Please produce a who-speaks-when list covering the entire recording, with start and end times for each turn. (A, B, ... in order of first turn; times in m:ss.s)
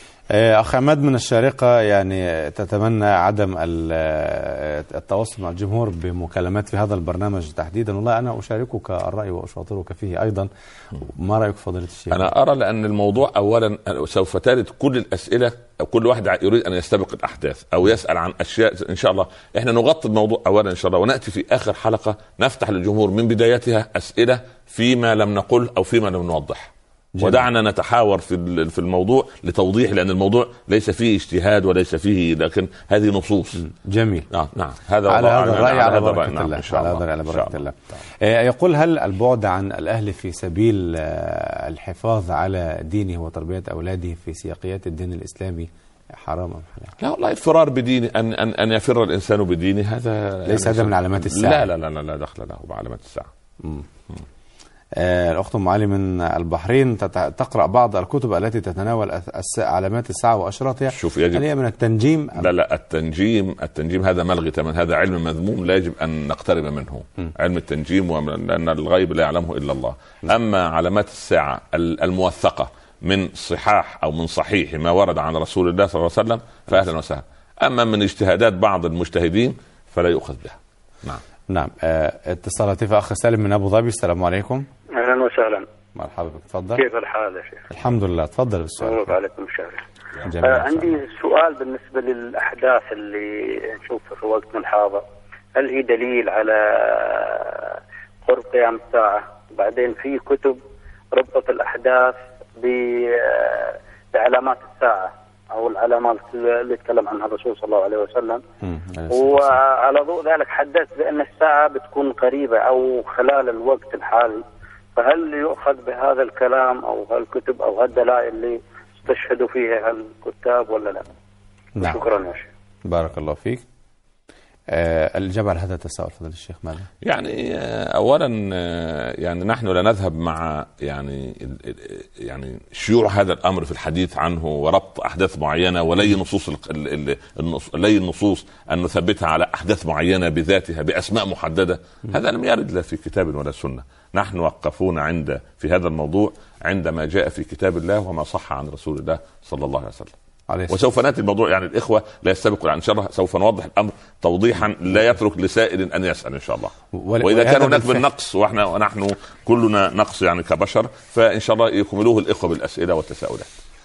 0:00.3-0:12.3 A
0:12.1-0:33.6 B
0:27.2-0:27.4 A
0:33.6-0:34.3 A
0:34.3-0:37.6 B
0:35.1-0:46.9 A
0:47.0-0:53.3 B
0:50.4-0:51.7 A
0:55.0-1:02.5 A
1:00.9-1:01.4 B
1:02.4-1:21.2 B
1:21.5-1:24.7 A
1:24.9-1:25.7 C
1:26.0-1:26.8 A
1:26.7-1:27.6 C
1:27.7-1:29.1 A
1:28.8-1:29.8 C
1:30.3-1:31.0 A
1:30.4-1:35.0 C
1:35.6-1:40.6 C
1:41.1-1:48.4 C
1:48.6-1:49.6 A
1:49.1-1:54.4 C
1:55.0-2:01.0 C
2:01.8-2:02.0 A
2:01.8-2:02.5 C
2:02.9-2:03.6 A
2:04.7-2:06.9 A
2:07.0-2:30.1 B
2:30.5-2:30.8 A
2:30.7-2:43.5 B
2:36.9-2:38.0 A